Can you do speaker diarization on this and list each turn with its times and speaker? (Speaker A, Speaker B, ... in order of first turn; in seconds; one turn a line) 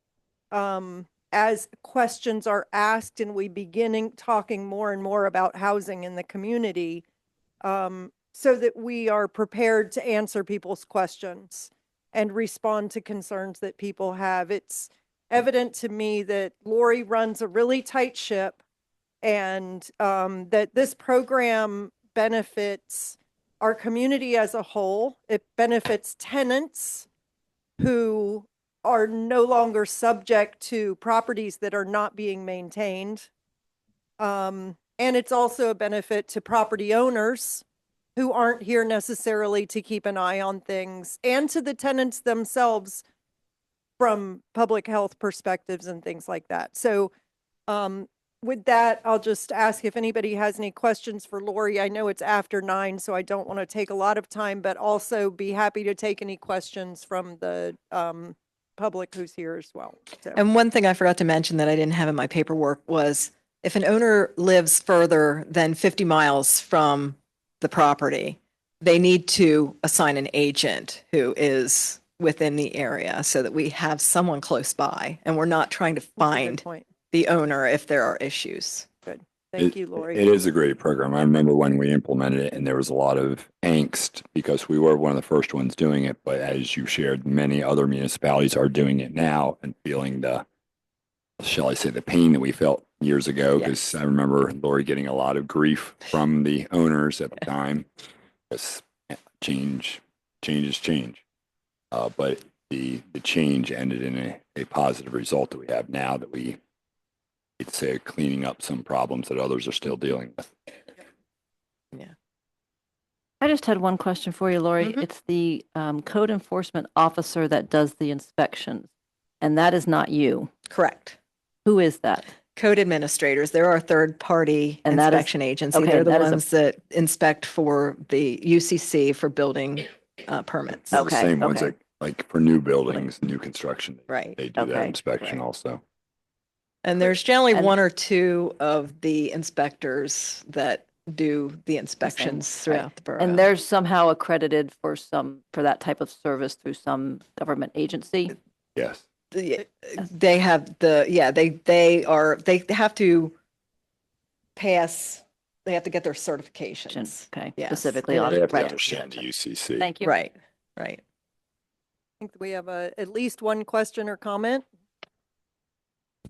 Speaker A: 0.5-7.0
Speaker A: 7.6-18.6
Speaker A: 19.2-27.1
Speaker A: 27.8-33.3
Speaker A: 34.2-37.6
Speaker A: 38.1-43.0
Speaker A: 44.0-47.1
Speaker A: 47.7-60.4
Speaker B: 60.3-78.9
Speaker A: 76.2-76.9
Speaker A: 79.0-80.2
Speaker C: 79.6-90.4
Speaker C: 91.4-97.9
Speaker C: 98.5-101.2
Speaker C: 101.9-106.6
Speaker C: 107.6-110.5
Speaker D: 113.4-118.9
Speaker D: 119.4-120.5
Speaker B: 120.7-121.2
Speaker D: 121.7-122.3
Speaker B: 122.5-131.0
Speaker D: 124.8-126.4
Speaker D: 130.9-131.7
Speaker C: 130.9-135.8
Speaker B: 134.1-134.4
Speaker D: 134.6-134.9
Speaker B: 136.8-143.5
Speaker D: 137.5-137.8
Speaker D: 142.0-148.3
Speaker C: 148.8-149.0
Speaker B: 149.3-153.3
Speaker B: 154.6-158.3
Speaker D: 156.9-159.2
Speaker C: 158.1-159.9
Speaker D: 159.8-160.1
Speaker B: 160.0-161.0
Speaker A: 162.2-164.7